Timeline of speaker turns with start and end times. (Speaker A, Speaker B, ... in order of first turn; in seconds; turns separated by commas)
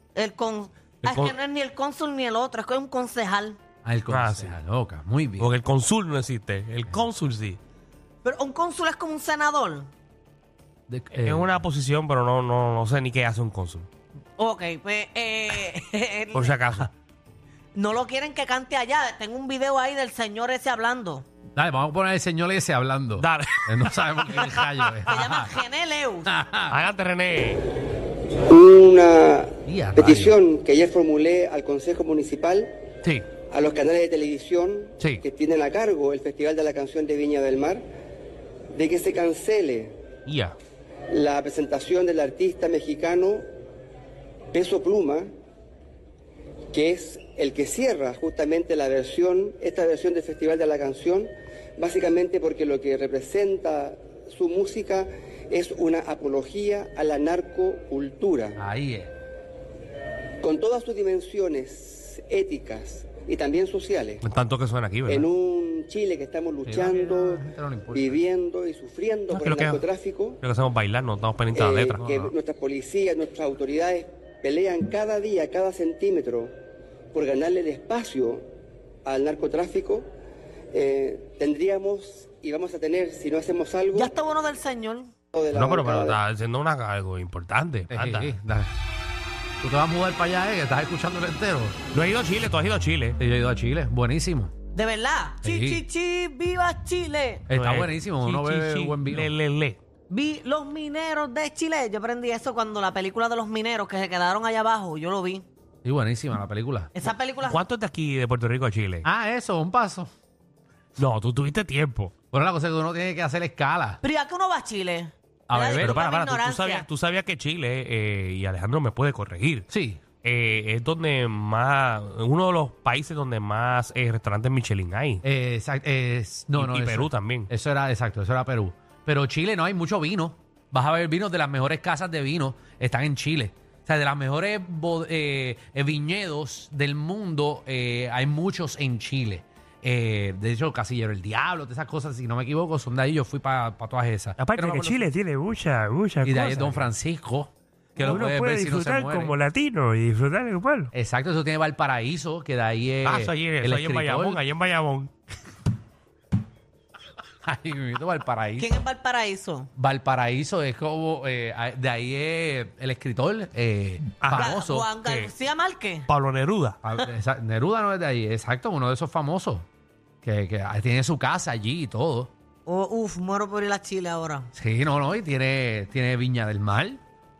Speaker A: 0.1-3.6, Speaker B: 1.0-1.3, Speaker C: 3.8-5.5, Speaker B: 4.1-4.6, Speaker B: 5.4-7.6, Speaker A: 8.2-9.9, Speaker C: 10.9-11.5, Speaker B: 11.2-13.9, Speaker A: 14.4-16.8, Speaker B: 16.3-16.9, Speaker A: 17.7-21.2, Speaker C: 21.6-25.6, Speaker B: 23.2-25.0, Speaker A: 25.1-26.3, Speaker C: 26.2-26.8, Speaker B: 26.7-27.7, Speaker D: 28.5-32.7, Speaker C: 29.6-30.4, Speaker D: 33.5-37.8, Speaker D: 38.7-39.9, Speaker B: 40.2-40.5, Speaker D: 41.1-43.4, Speaker D: 44.5-45.3, Speaker D: 46.7-58.6, Speaker C: 58.6-59.1, Speaker D: 60.4-64.2, Speaker B: 64.2-65.3, Speaker D: 65.1-67.4, Speaker C: 66.6-68.2, Speaker D: 67.9-70.4, Speaker B: 69.3-69.8, Speaker B: 70.4-72.2, Speaker D: 71.5-76.5, Speaker C: 72.0-72.2, Speaker D: 77.1-78.4, Speaker D: 79.0-80.0, Speaker D: 80.7-84.1, Speaker A: 83.9-85.1, Speaker D: 85.3-86.2, Speaker B: 85.5-88.3, Speaker C: 87.9-88.7, Speaker C: 89.6-91.8, Speaker B: 91.9-93.2, Speaker C: 93.2-94.5, Speaker A: 94.7-97.4, Speaker C: 95.4-95.8, Speaker C: 97.5-99.3, Speaker B: 97.5-99.8, Speaker A: 100.1-105.4, Speaker C: 105.8-106.9, Speaker A: 106.9-107.6, Speaker B: 107.4-109.0, Speaker C: 109.0-110.1, Speaker B: 111.0-112.1, Speaker C: 112.3-114.0, Speaker A: 114.0-116.8, Speaker C: 115.5-116.0, Speaker B: 115.8-119.7, Speaker C: 119.7-120.0, Speaker B: 120.2-125.2, Speaker C: 125.2-145.0, Speaker B: 126.5-127.5, Speaker B: 144.4-146.9, Speaker C: 146.2-149.4, Speaker B: 148.0-150.9, Speaker C: 150.9-154.4, Speaker B: 153.0-155.1, Speaker C: 157.4-158.8, Speaker A: 158.6-159.7, Speaker C: 159.8-164.9, Speaker B: 164.2-165.3, Speaker A: 164.3-166.1, Speaker B: 166.1-166.8, Speaker C: 166.8-169.7, Speaker C: 170.2-172.3, Speaker A: 172.7-174.5, Speaker C: 174.5-177.0